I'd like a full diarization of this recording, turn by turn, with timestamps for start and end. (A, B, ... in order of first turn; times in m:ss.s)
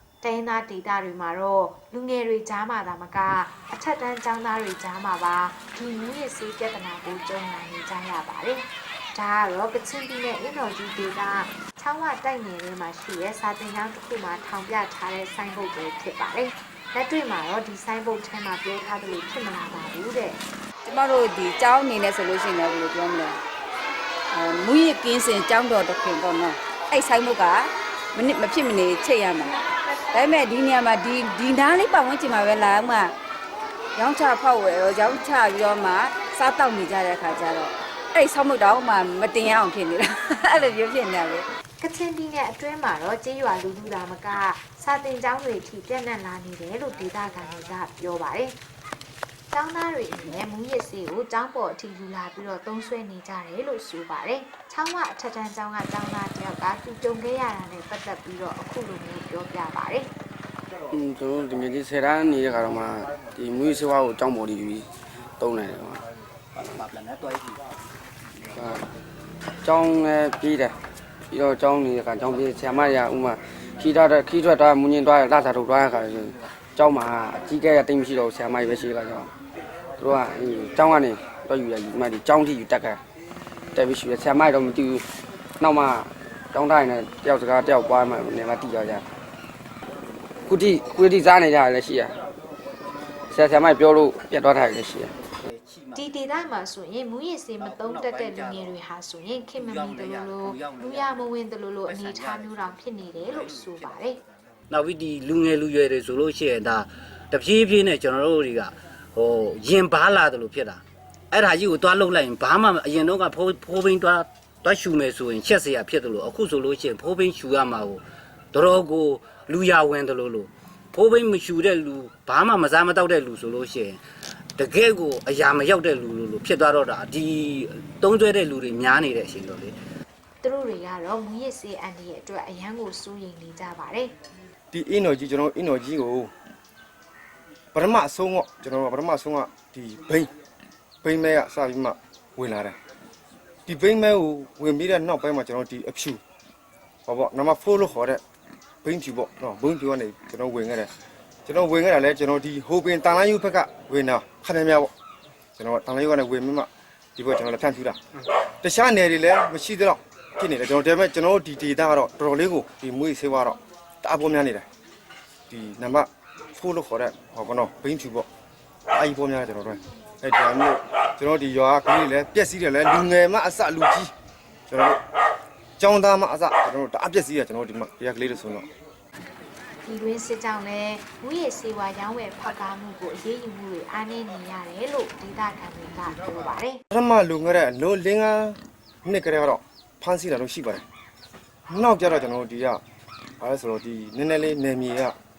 0:00.2-0:20.4 A
0:20.8-0:23.4 B
0:24.3-0:29.6 B
0:30.1-0:33.1 B
0:34.0-0:41.5 B
0:41.8-0:48.6 A
0:49.5-1:00.1 A
1:00.9-1:04.9 C
1:05.4-1:06.0 C
1:06.6-1:07.5 D
1:08.5-1:08.9 C
1:09.6-1:10.7 C
1:11.3-1:19.3 C
1:20.0-1:23.0 C
1:23.8-1:25.0 C
1:25.6-1:29.0 C
1:30.5-1:32.1 C
1:33.3-1:35.1 C
1:35.4-1:36.0 D
1:36.0-1:44.2 A
1:37.6-1:38.7 D
1:39.6-1:41.2 D
1:41.9-1:44.0 D
1:44.7-2:04.0 D
2:04.6-2:09.8 D
2:10.4-2:14.1 A
2:14.7-2:16.3 E
2:17.7-2:20.3 E
2:21.0-2:22.8 E
2:23.7-2:26.2 E
2:27.1-2:28.2 E
2:28.8-2:30.9 E
2:31.5-2:34.9 E
2:35.6-2:38.0 E
2:38.6-2:44.7 E
2:45.5-2:48.3 E
2:48.9-2:54.1 E
2:54.7-2:55.0 E
2:55.8-2:58.7 E
2:59.8-3:06.8 A
3:06.9-3:10.8 E
3:11.7-3:12.8 E
3:13.4-3:15.2 E